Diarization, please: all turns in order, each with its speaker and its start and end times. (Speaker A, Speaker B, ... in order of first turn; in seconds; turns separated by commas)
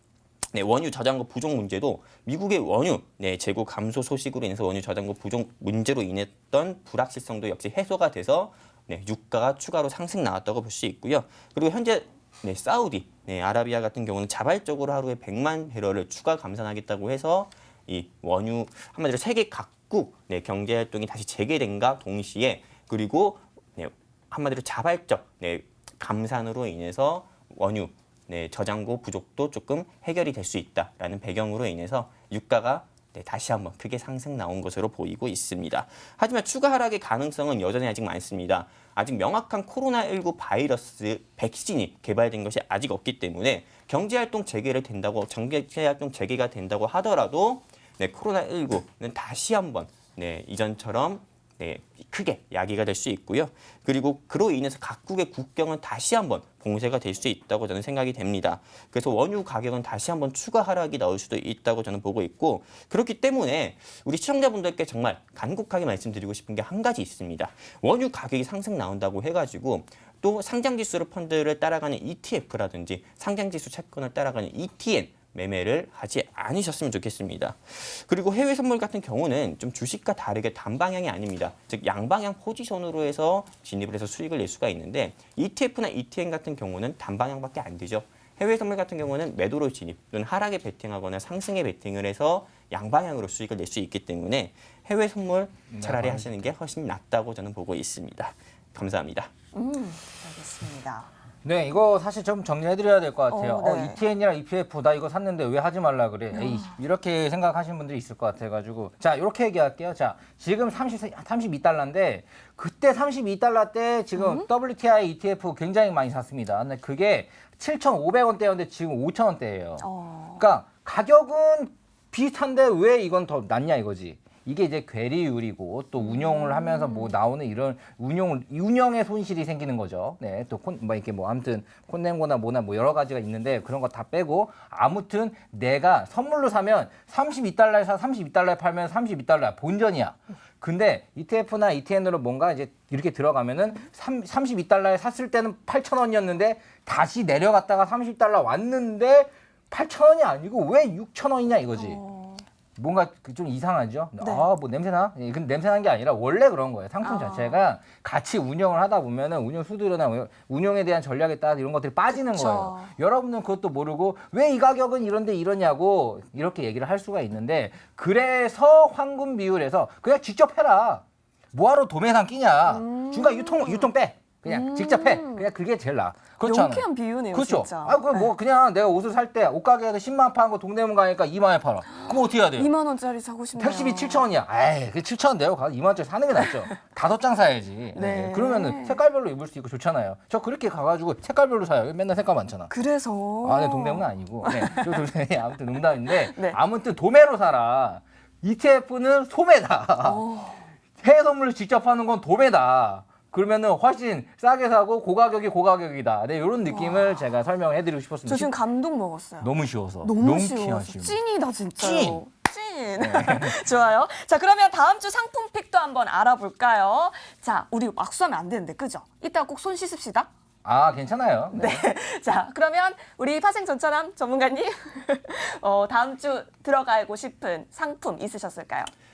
Speaker A: 0.5-99.3, Speaker B: 95.7-96.5, Speaker C: 99.5-101.1, Speaker B: 101.4-119.8, Speaker C: 103.3-104.0, Speaker C: 106.3-106.7, Speaker C: 114.2-114.5, Speaker C: 119.8-120.4, Speaker B: 120.4-152.0, Speaker C: 126.0-127.1, Speaker C: 151.7-152.4, Speaker B: 152.8-182.7, Speaker C: 154.2-154.5, Speaker C: 157.0-157.6, Speaker C: 162.3-162.9, Speaker C: 172.7-173.9, Speaker C: 174.4-175.5, Speaker C: 176.4-178.3, Speaker C: 181.9-184.3, Speaker B: 183.6-192.7, Speaker C: 187.9-189.0, Speaker C: 192.7-195.0, Speaker B: 193.4-200.2, Speaker C: 196.1-196.6, Speaker C: 200.0-200.7, Speaker B: 201.0-208.5, Speaker C: 206.7-207.2, Speaker C: 208.2-209.5, Speaker B: 209.4-211.2, Speaker C: 210.0-220.3, Speaker B: 211.8-212.2, Speaker B: 213.0-213.6, Speaker B: 220.6-221.9, Speaker C: 221.5-228.9